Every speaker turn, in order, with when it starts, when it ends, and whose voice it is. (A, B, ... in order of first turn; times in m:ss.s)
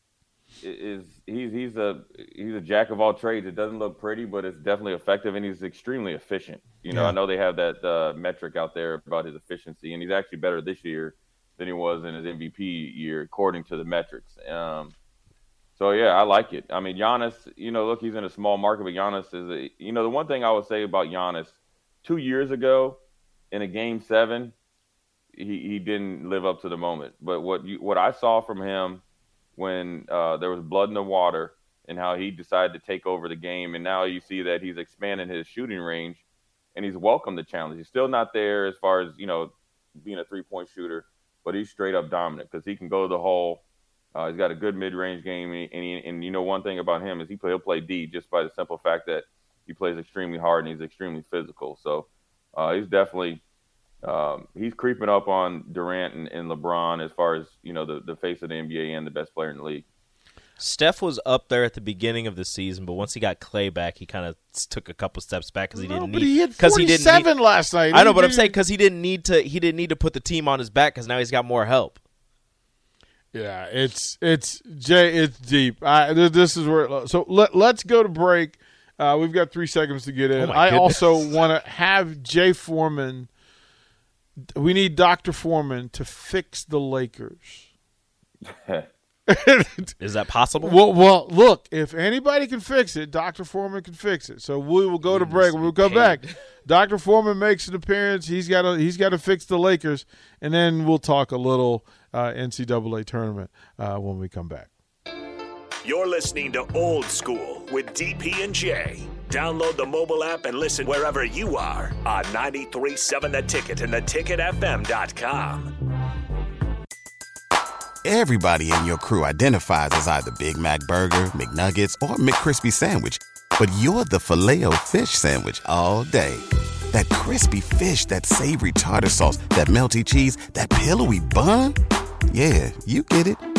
0:00.6-0:15.0 A
0:06.9-0:07.2 B
0:15.8-0:23.0 A
0:23.5-0:24.6 A
0:25.4-0:29.0 A
0:29.6-0:36.2 A
0:36.8-0:43.6 A
0:44.2-0:53.4 A
0:54.0-0:59.9 A
1:00.6-1:07.3 C
1:05.7-1:08.6 B
1:07.9-1:12.0 C
1:13.3-1:23.3 B
1:20.4-1:21.2 C
1:24.6-1:27.7 B
1:28.5-1:28.9 A
1:29.3-1:29.9 B
1:30.0-1:30.8 C
1:30.6-1:44.7 B
1:35.1-1:36.3 C
1:45.8-1:55.7 D
1:58.0-2:11.8 E
2:12.3-2:13.4 E